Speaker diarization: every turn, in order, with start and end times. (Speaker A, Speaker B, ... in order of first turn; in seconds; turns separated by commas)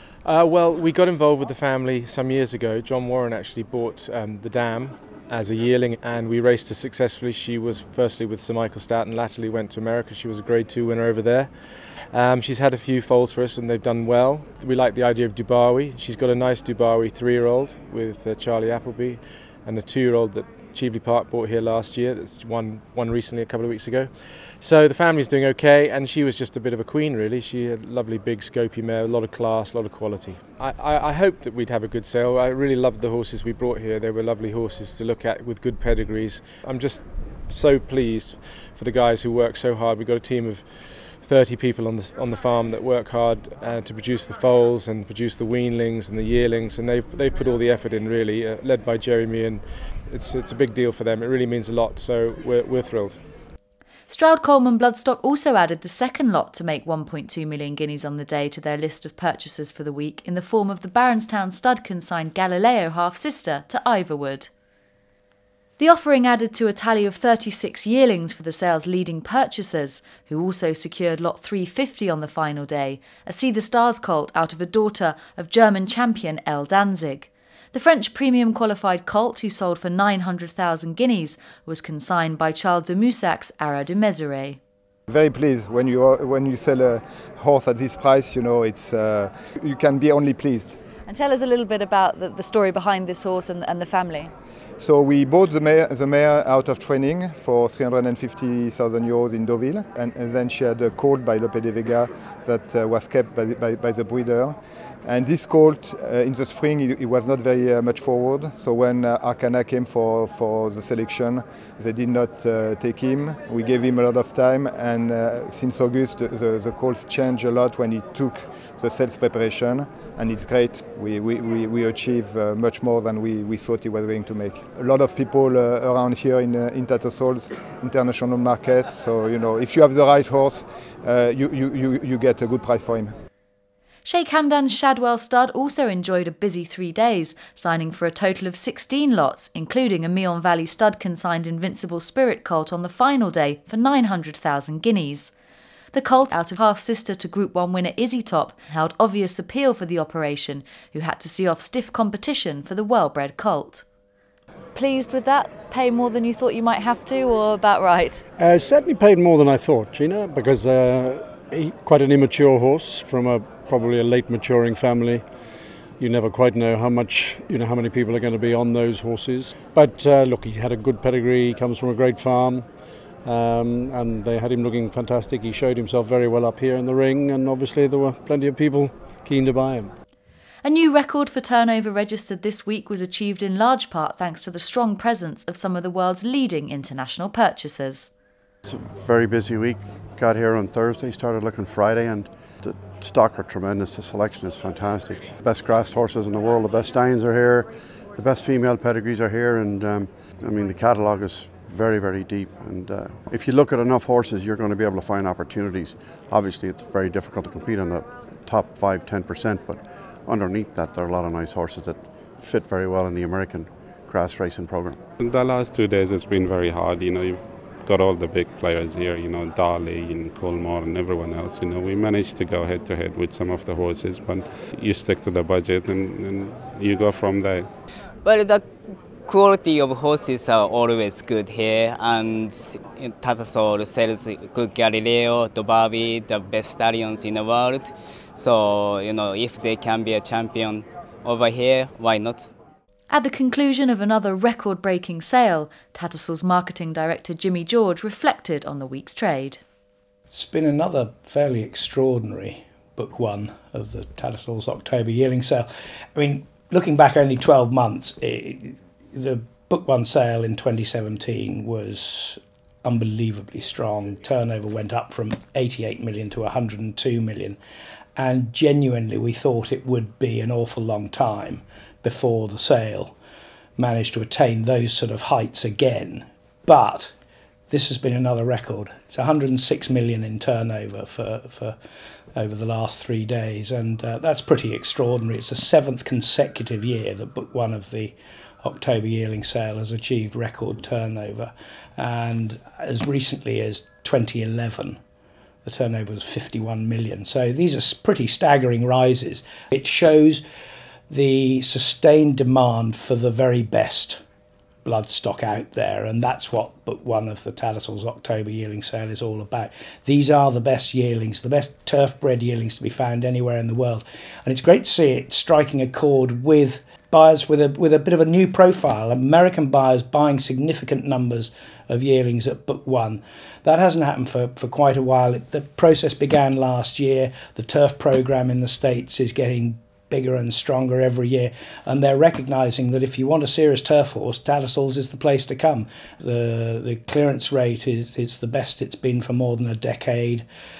Speaker A: 0.2-53.2, Speaker B: 54.1-64.5, Speaker B: 65.8-84.6, Speaker C: 85.1-90.8, Speaker B: 91.1-94.3, Speaker C: 94.8-133.1, Speaker B: 134.1-145.3, Speaker B: 145.9-153.8, Speaker B: 154.7-158.3, Speaker D: 158.4-165.3, Speaker D: 166.0-172.7, Speaker D: 173.2-179.9, Speaker B: 180.6-188.1, Speaker E: 188.7-215.0, Speaker F: 215.2-227.7, Speaker G: 228.2-228.7, Speaker G: 229.2-242.5, Speaker B: 243.1-249.6, Speaker H: 250.3-267.6, Speaker H: 268.2-273.1, Speaker H: 273.8-277.1, Speaker H: 277.7-281.8, Speaker H: 282.4-295.0, Speaker H: 295.6-300.4, Speaker H: 301.1-304.2, Speaker H: 304.9-340.5